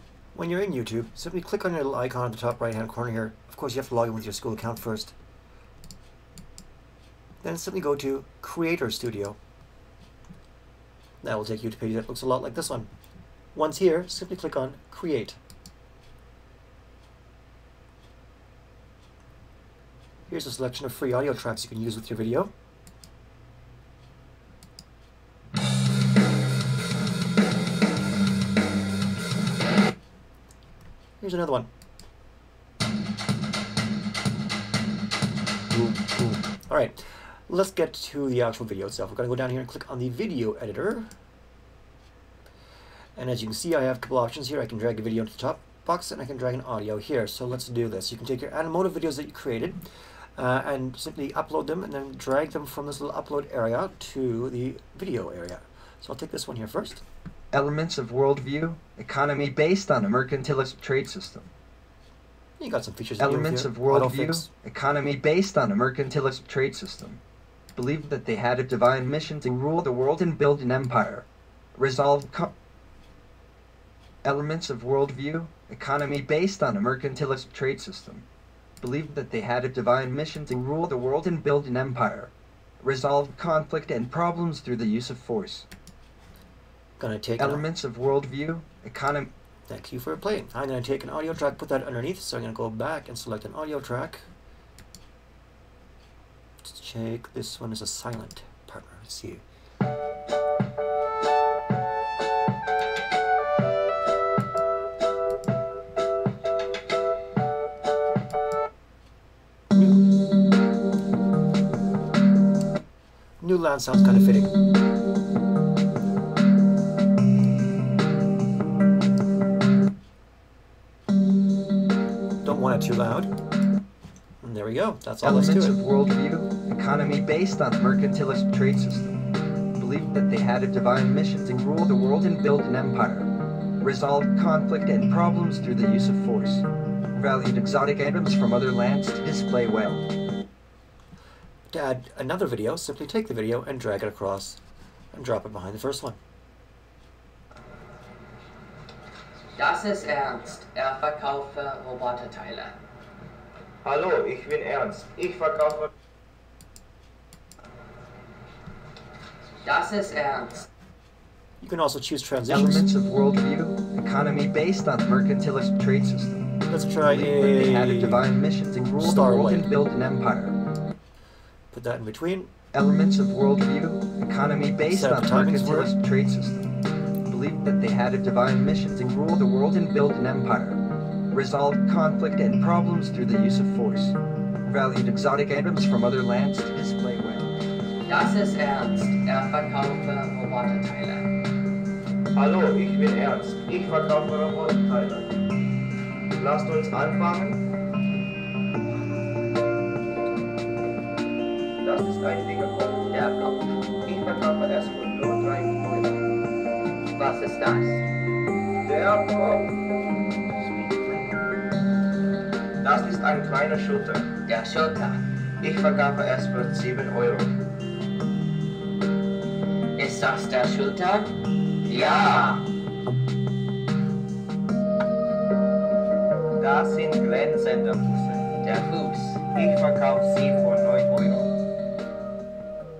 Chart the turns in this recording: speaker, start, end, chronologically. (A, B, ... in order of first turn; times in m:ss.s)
0:00.3-0:05.1 A
0:07.4-0:09.4 A
0:11.2-0:12.9 A
0:13.5-0:15.4 A
0:20.3-0:22.5 A
0:31.2-0:31.7 A
0:35.7-0:41.1 A
0:43.2-0:49.8 A
0:50.4-0:57.0 A
0:57.5-1:01.5 B
1:02.6-1:04.5 A
1:03.2-1:07.2 B
1:07.8-1:12.5 B
1:14.2-1:18.2 B
1:18.8-1:25.7 B
1:27.0-1:27.7 A
1:27.4-1:29.3 B
1:29.7-1:34.3 A
1:36.6-1:39.4 A
1:53.4-1:54.5 A
2:02.4-2:03.3 A
2:04.4-2:05.8 A
2:05.2-2:09.2 B
2:09.8-2:20.0 B
2:21.7-2:24.6 A
2:25.1-2:26.2 A
2:29.6-2:32.8 C
2:33.8-2:35.9 D
2:39.6-2:40.7 C
2:41.6-2:43.0 A
2:42.5-2:46.5 B
2:46.7-2:48.2 A
2:47.0-2:50.6 B
2:49.0-2:49.7 A
2:51.7-2:52.5 A
2:52.7-2:56.7 B
2:54.9-2:55.9 A
2:57.3-3:07.5 B
3:08.1-3:11.3 C
3:12.3-3:15.3 D
3:16.4-3:17.6 D
3:21.8-3:23.1 D
3:23.1-3:23.7 C
3:24.0-3:26.2 D
3:27.2-3:28.0 C
3:28.8-3:29.8 D
3:30.6-3:31.3 D
3:32.8-3:34.3 D
3:34.4-3:35.3 C
3:35.6-3:37.6 D
3:40.0-3:42.6 C
3:41.9-3:42.6 D
3:46.6-3:48.5 D
3:48.6-3:49.4 C
3:49.5-3:51.5 D